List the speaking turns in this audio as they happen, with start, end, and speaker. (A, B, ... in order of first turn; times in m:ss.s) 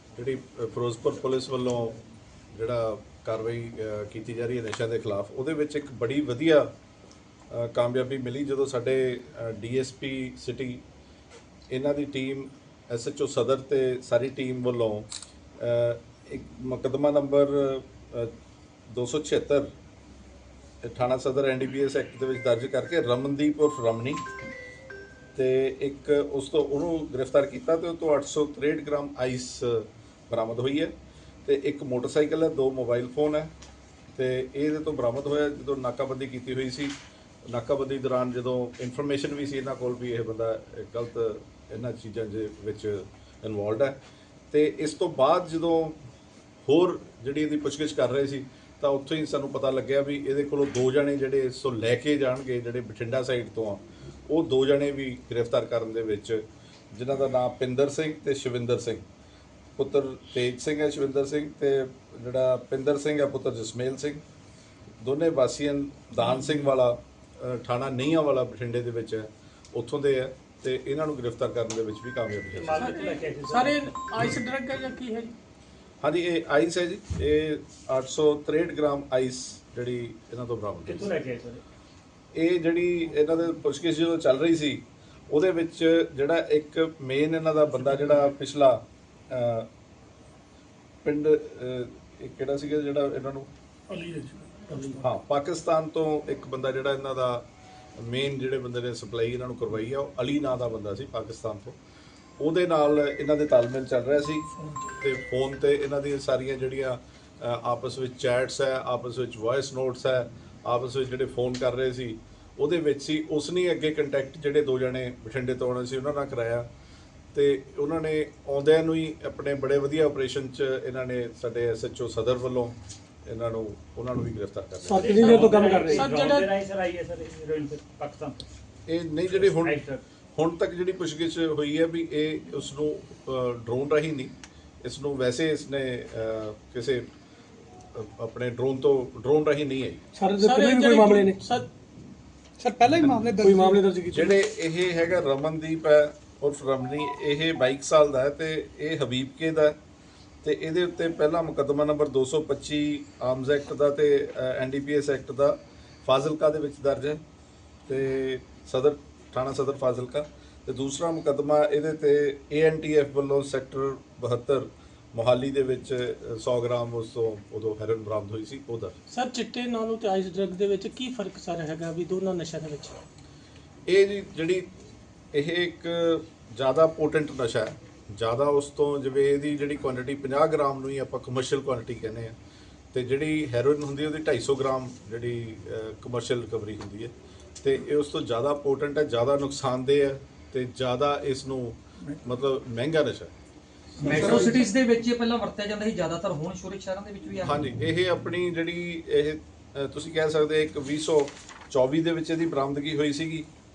0:00.2-0:02.0 A
0:02.5-0:06.7 A
0:07.5-0:10.8 A
0:11.7-0:15.1 A
0:15.6-0:18.3 A
0:18.9-0:19.7 A
0:20.8-0:24.2 A
0:25.3-0:30.9 A
0:31.4-0:33.5 A
0:34.2-0:36.9 A
0:37.5-0:44.0 A
0:44.5-0:46.0 A
0:46.6-0:59.0 A
0:59.8-1:04.2 A
1:05.0-1:12.9 A
1:12.5-1:13.8 B
1:12.7-1:15.3 C
1:16.0-1:21.1 A
1:20.8-1:21.6 B
1:22.3-1:29.7 A
1:31.0-1:33.5 A
1:34.0-1:34.6 D
1:34.7-1:35.0 C
1:35.0-1:37.4 A
1:38.0-1:41.8 A
1:42.4-1:56.7 A
1:57.3-2:02.7 A
2:03.2-2:05.8 A
2:04.9-2:06.5 C
2:04.9-2:08.5 B
2:08.9-2:09.8 A
2:09.3-2:10.0 B
2:10.3-2:17.1 A
2:17.9-2:20.0 A
2:20.2-2:21.7 C
2:20.4-2:21.3 D
2:22.6-2:23.8 D
2:23.4-2:24.1 C
2:24.1-2:29.8 A
2:30.4-2:37.2 A
2:37.9-2:49.0 A
2:49.1-2:52.9 C
2:53.9-2:54.7 A
2:55.3-3:02.4 A
3:02.9-3:13.3 A
3:14.0-3:17.5 E
3:14.1-3:14.4 A
3:17.4-3:23.4 A